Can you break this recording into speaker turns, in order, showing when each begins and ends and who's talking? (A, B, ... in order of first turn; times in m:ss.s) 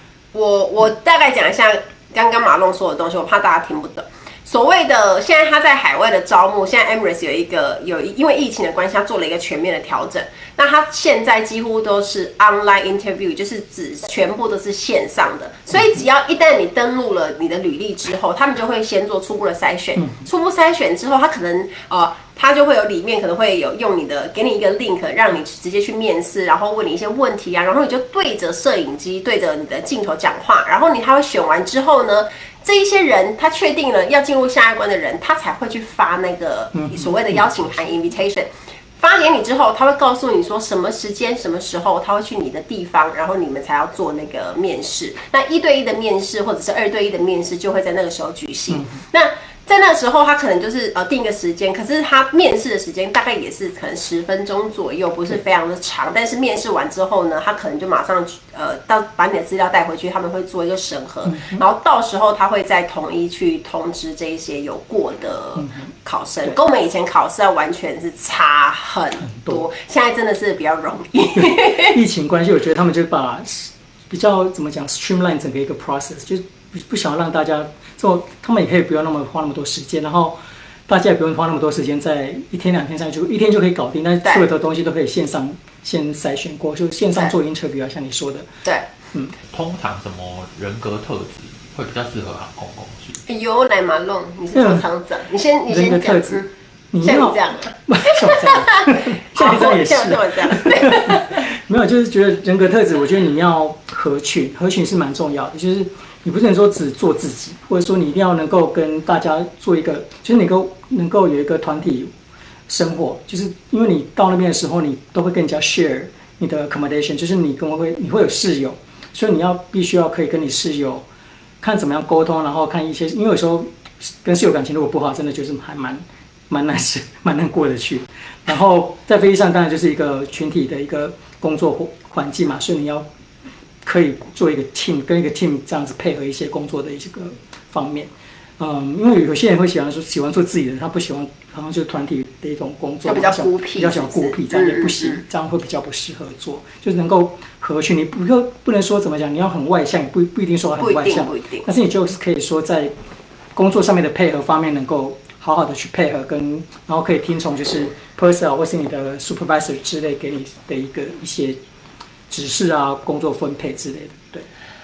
0:00.3-1:12.0 A
0:36.7-0:37.5 B
0:48.7-0:49.0 B
1:01.2-1:01.6 B
1:05.6-1:05.9 B
1:09.2-1:09.6 B
1:11.4-1:20.4 B
1:20.9-1:28.5 B
1:29.5-1:33.2 C
1:33.2-1:36.5 A
1:34.5-1:34.8 B
1:35.7-1:52.1 B
1:37.0-1:41.4 A
1:52.7-2:01.0 B
2:01.6-2:13.0 B
2:13.8-2:32.9 B
2:23.0-2:25.2 A
2:30.8-2:31.7 A
2:33.5-2:41.6 B
2:42.3-2:44.5 B